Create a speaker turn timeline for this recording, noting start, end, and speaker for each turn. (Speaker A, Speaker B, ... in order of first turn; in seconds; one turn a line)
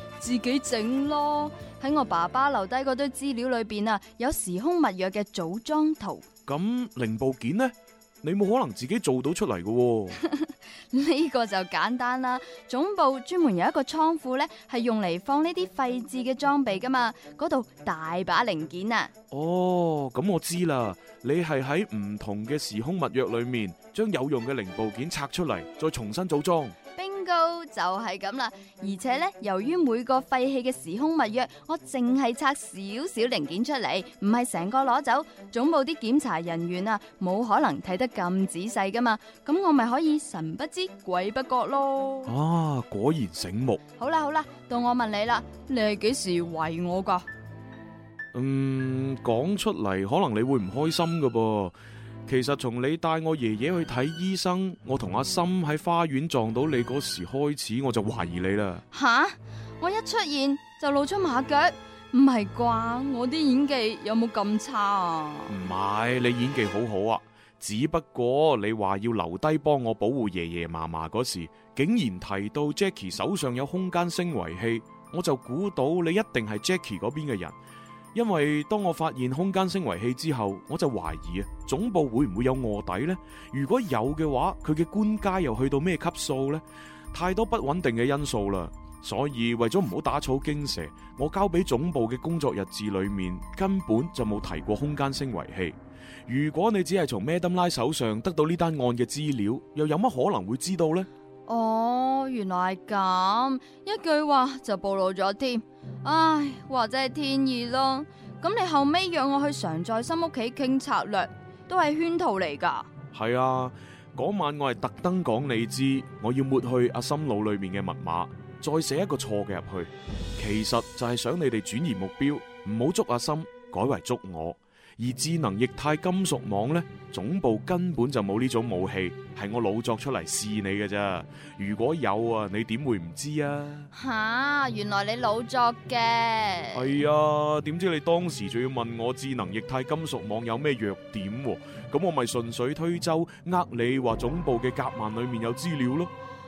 Speaker A: 0.2-6.2
Speaker B: 6.5-10.2
Speaker A: 10.4-19.1
Speaker B: 19.3-26.7
Speaker A: 26.9-42.3
Speaker B: 42.2-43.8
Speaker A: 44.0-47.2
Speaker B: 48.3-58.8
Speaker A: 58.9-65.5
Speaker B: 65.5-77.5
Speaker B: 78.1-101.1
Speaker A: 101.5-112.9
Speaker B: 113.1-133.9
Speaker A: 133.9-136.9
Speaker B: 136.7-146.1